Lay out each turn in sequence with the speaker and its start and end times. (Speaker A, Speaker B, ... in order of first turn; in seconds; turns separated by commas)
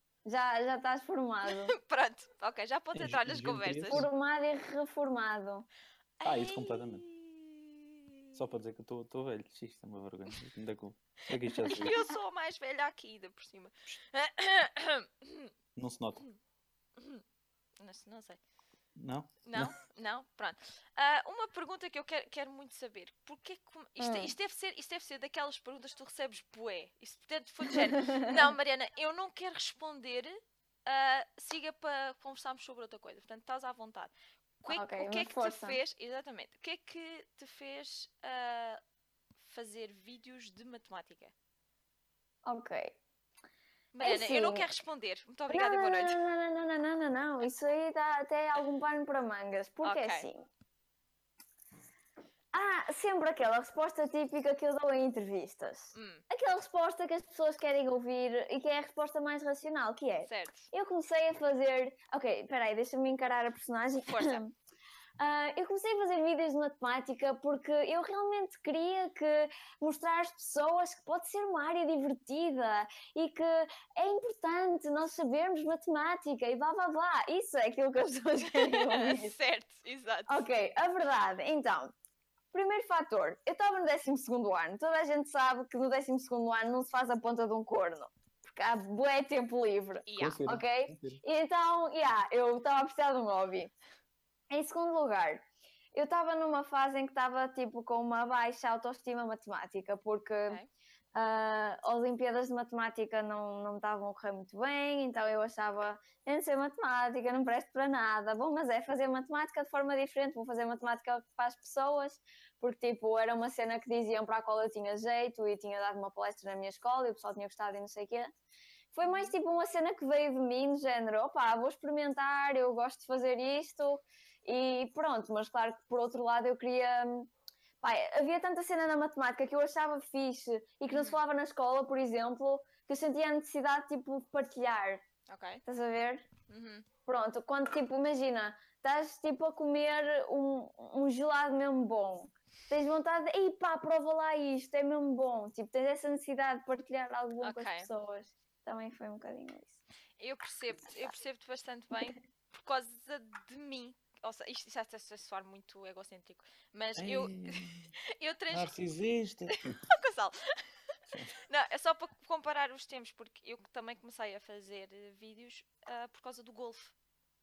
Speaker A: 0.2-1.8, Speaker B: 1.5-4.1, Speaker C: 2.9-4.1, Speaker A: 3.9-5.7, Speaker B: 6.2-8.4, Speaker C: 6.2-7.0, Speaker C: 8.3-12.0, Speaker B: 11.6-15.5, Speaker C: 15.8-16.2, Speaker B: 17.0-17.2, Speaker B: 17.8-18.4, Speaker C: 18.9-19.8, Speaker B: 19.4-38.8, Speaker A: 24.0-24.3, Speaker A: 27.7-28.4, Speaker A: 34.7-35.8, Speaker B: 39.4-41.3, Speaker A: 42.4-43.0, Speaker B: 43.9-46.2, Speaker A: 44.0-44.7, Speaker A: 45.5-50.4, Speaker B: 49.8-50.3, Speaker A: 52.5-64.5, Speaker B: 55.9-56.2, Speaker B: 60.2-60.7, Speaker B: 64.1-64.4, Speaker A: 65.2-79.3, Speaker B: 78.4-80.4, Speaker A: 80.3-81.9, Speaker A: 82.5-93.7, Speaker B: 90.1-90.5, Speaker C: 90.2-91.2, Speaker A: 94.5-100.6, Speaker A: 101.1-118.3, Speaker A: 118.9-127.3, Speaker B: 119.0-119.3, Speaker A: 127.8-135.0, Speaker B: 130.9-131.2, Speaker B: 135.3-135.6, Speaker A: 135.7-136.3, Speaker B: 136.5-136.8, Speaker A: 137.1-149.8, Speaker B: 147.4-147.9, Speaker B: 150.2-158.8, Speaker C: 157.0-157.9, Speaker C: 158.5-159.8, Speaker B: 159.5-160.6, Speaker C: 161.1-161.4, Speaker B: 161.4-166.9